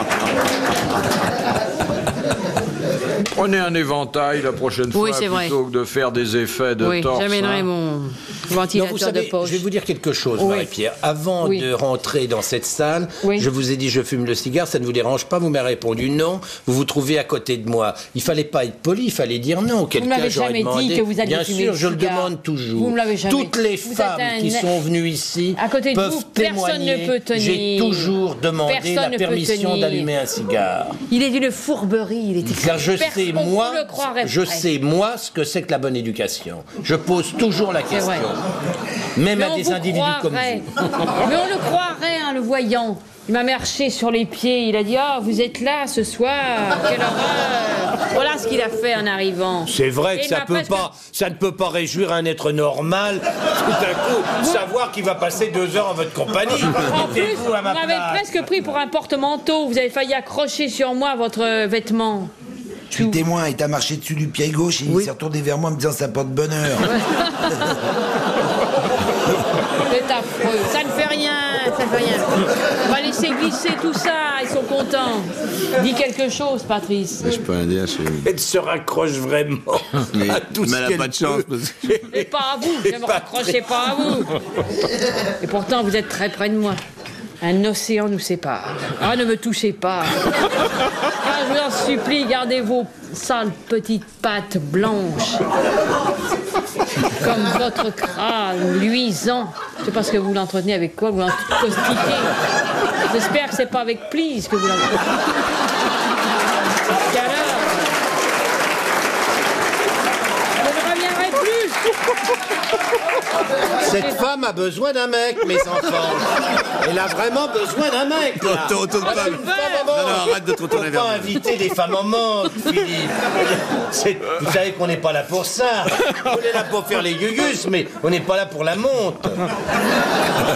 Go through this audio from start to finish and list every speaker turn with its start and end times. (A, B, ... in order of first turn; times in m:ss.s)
0:03.3-0:07.7 A
0:04.9-0:05.6 B
0:06.8-0:09.6 B
0:08.7-0:31.0 C
0:10.4-0:10.7 B
0:11.4-0:11.7 B
0:19.9-0:24.7 B
0:25.6-0:28.1 B
0:28.7-0:30.1 B
0:31.1-0:34.7 B
0:32.4-0:38.4 C
0:37.9-0:38.3 B
0:39.2-0:40.6 C
0:39.3-0:40.7 B
0:41.2-0:50.9 B
0:49.6-0:58.3 C
0:56.7-1:02.3 B
1:02.9-1:03.2 B
1:02.9-1:06.9 D
1:06.8-1:07.9 B
1:09.8-1:17.4 B
1:17.2-1:18.3 E
1:18.2-1:22.3 C
1:20.1-1:22.0 E
1:22.1-1:24.3 B
1:22.8-1:24.2 C
1:25.4-1:26.8 B
1:27.4-1:30.2 B
1:31.1-1:35.4 B
1:37.1-1:42.3 B
1:43.0-1:45.1 B
1:47.1-1:47.9 B
1:50.6-1:51.9 B
1:53.8-2:09.4 C
1:58.5-2:01.4 E
1:59.0-1:59.9 B